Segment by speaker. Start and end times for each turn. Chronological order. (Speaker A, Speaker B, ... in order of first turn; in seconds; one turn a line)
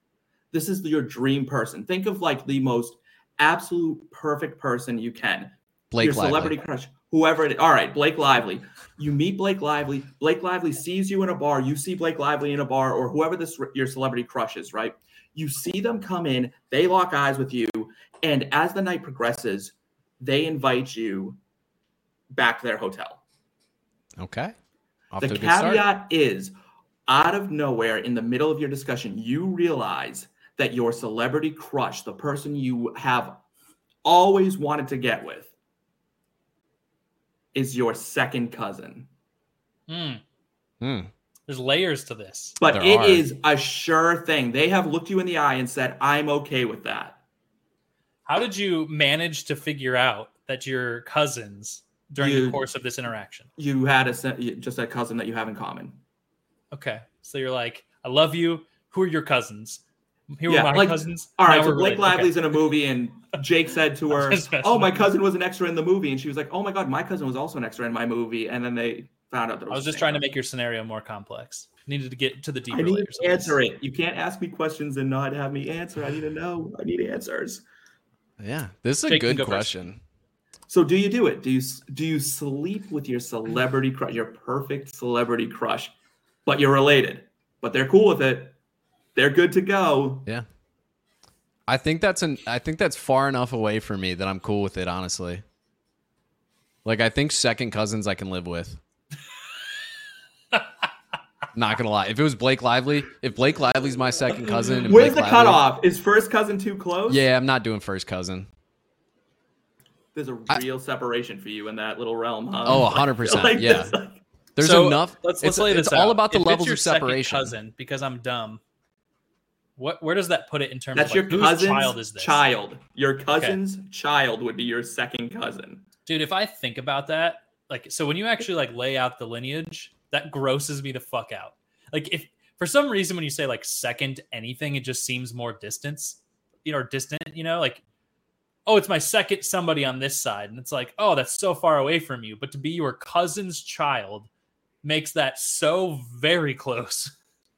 Speaker A: 0.5-21.4
Speaker B: 5.9-6.5
Speaker A: 22.3-23.2
Speaker B: 24.2-24.5
Speaker B: 25.1-25.9
Speaker A: 25.2-26.5
Speaker A: 27.1-33.4
Speaker A: 34.0-35.5
Speaker A: 37.5-39.1
Speaker C: 39.9-40.2
Speaker B: 40.8-41.1
Speaker C: 41.5-42.6
Speaker A: 42.6-47.2
Speaker B: 42.7-43.3
Speaker C: 48.3-53.5
Speaker A: 52.2-52.6
Speaker A: 53.6-56.0
Speaker C: 56.7-62.5
Speaker A: 60.5-70.3
Speaker C: 64.1-65.1
Speaker C: 69.7-73.5
Speaker A: 72.7-77.6
Speaker B: 78.4-80.0
Speaker C: 79.1-79.7
Speaker A: 80.7-85.9
Speaker A: 86.5-88.5
Speaker A: 89.2-90.3
Speaker B: 91.7-95.4
Speaker B: 96.8-98.8
Speaker B: 101.5-105.6
Speaker A: 104.8-107.2
Speaker B: 107.1-108.5
Speaker A: 110.1-114.2
Speaker B: 112.6-114.0
Speaker B: 114.6-117.5
Speaker C: 114.6-118.6
Speaker C: 119.8-122.4
Speaker A: 121.0-125.8
Speaker C: 126.0-137.8
Speaker C: 138.7-144.3
Speaker C: 144.8-147.1